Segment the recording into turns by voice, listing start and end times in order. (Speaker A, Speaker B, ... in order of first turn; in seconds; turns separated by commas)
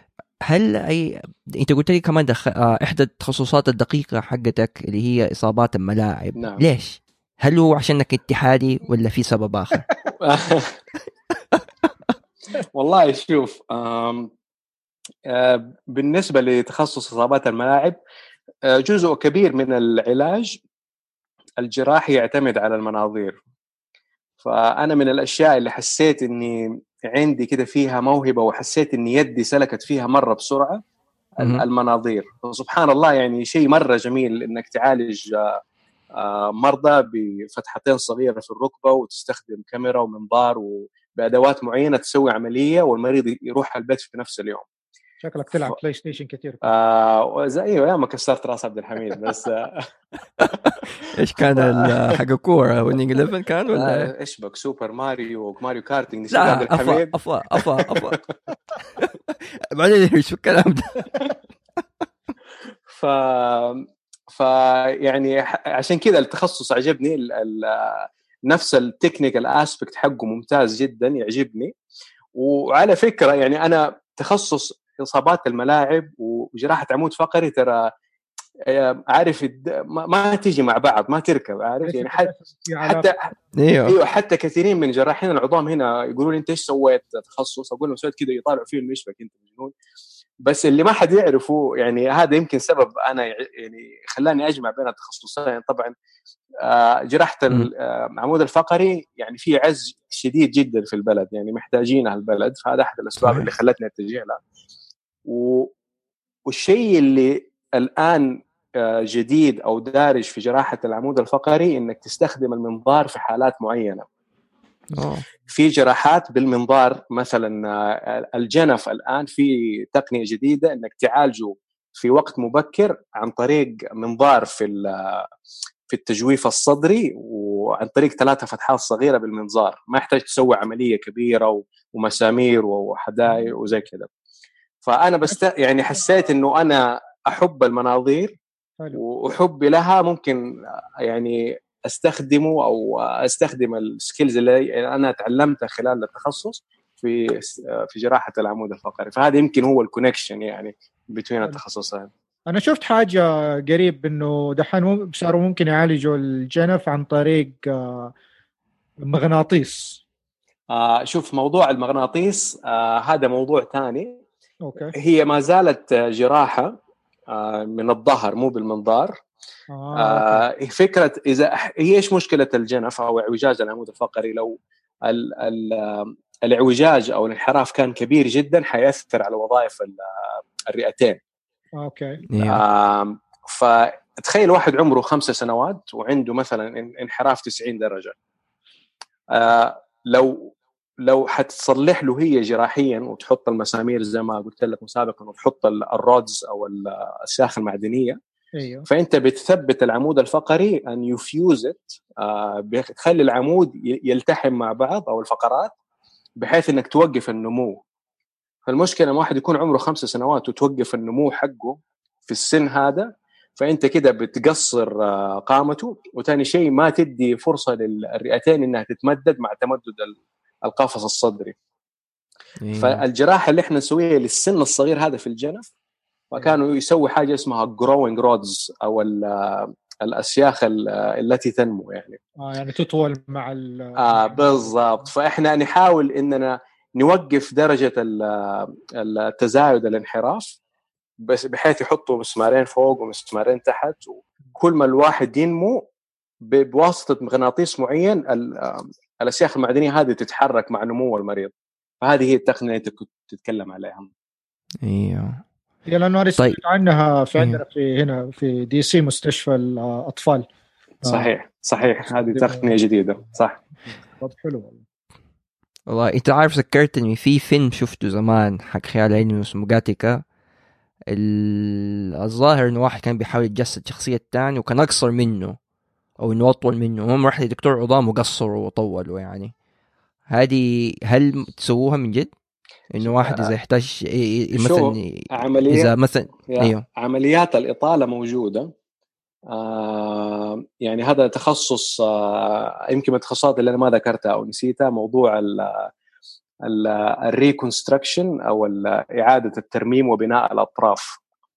Speaker A: 0.4-9.9, Speaker B: 6.3-6.6, Speaker B: 10.2-10.8, Speaker B: 12.7-14.3, Speaker B: 15.3-18.0, Speaker B: 18.7-20.6, Speaker B: 21.6-23.4, Speaker B: 24.4-30.8, Speaker A: 31.4-31.6, Speaker B: 31.4-35.6, Speaker B: 36.2-44.7, Speaker C: 45.2-46.7, Speaker B: 45.5-45.8, Speaker B: 46.6-49.9, Speaker A: 50.4-54.1, Speaker B: 51.5-52.2, Speaker B: 53.7-58.2, Speaker A: 56.3-58.2, Speaker A: 59.7-61.3, Speaker B: 62.9-71.7, Speaker B: 72.3-77.9, Speaker B: 78.7-82.3, Speaker C: 81.8-83.1, Speaker B: 82.8-83.3, Speaker A: 83.5-84.0, Speaker B: 83.8-89.7, Speaker B: 90.4-95.9, Speaker B: 96.6-104.4, Speaker A: 103.2-103.5, Speaker B: 105.2-105.7, Speaker B: 106.5-114.0, Speaker A: 114.9-115.2, Speaker B: 115.5-125.2, Speaker B: 125.9-134.1, Speaker C: 133.3-133.5, Speaker B: 134.8-138.4, Speaker B: 138.9-140.4, Speaker B: 141.0-152.1, Speaker C: 152.5-158.1, Speaker C: 159.0-160.0, Speaker B: 160.7-164.1, Speaker C: 164.6-164.9, Speaker B: 164.9-166.7, Speaker B: 167.3-169.1, Speaker C: 169.7-170.4, Speaker B: 169.9-180.0, Speaker B: 180.7-181.2, Speaker C: 181.8-182.2, Speaker A: 182.3-182.6, Speaker B: 182.4-188.1, Speaker B: 189.3-198.2, Speaker C: 198.6-198.9, Speaker B: 198.9-205.7, Speaker B: 206.4-207.8, Speaker B: 208.7-221.6, Speaker A: 222.6-223.0, Speaker B: 222.8-225.7, Speaker B: 226.3-232.2, Speaker C: 232.4-234.7, Speaker B: 234.0-240.6, Speaker B: 241.2-245.8, Speaker B: 246.4-254.1, Speaker A: 254.8-255.4, Speaker C: 255.9-260.5, Speaker B: 261.1-263.6, Speaker C: 262.1-262.8, Speaker C: 264.1-264.8, Speaker A: 265.9-270.2, Speaker A: 271.1-275.6, Speaker A: 276.2-279.5, Speaker A: 280.3-282.3, Speaker A: 282.9-286.8, Speaker B: 283.0-283.5, Speaker B: 284.5-285.9, Speaker B: 286.5-288.7, Speaker B: 289.5-295.9, Speaker B: 296.6-301.2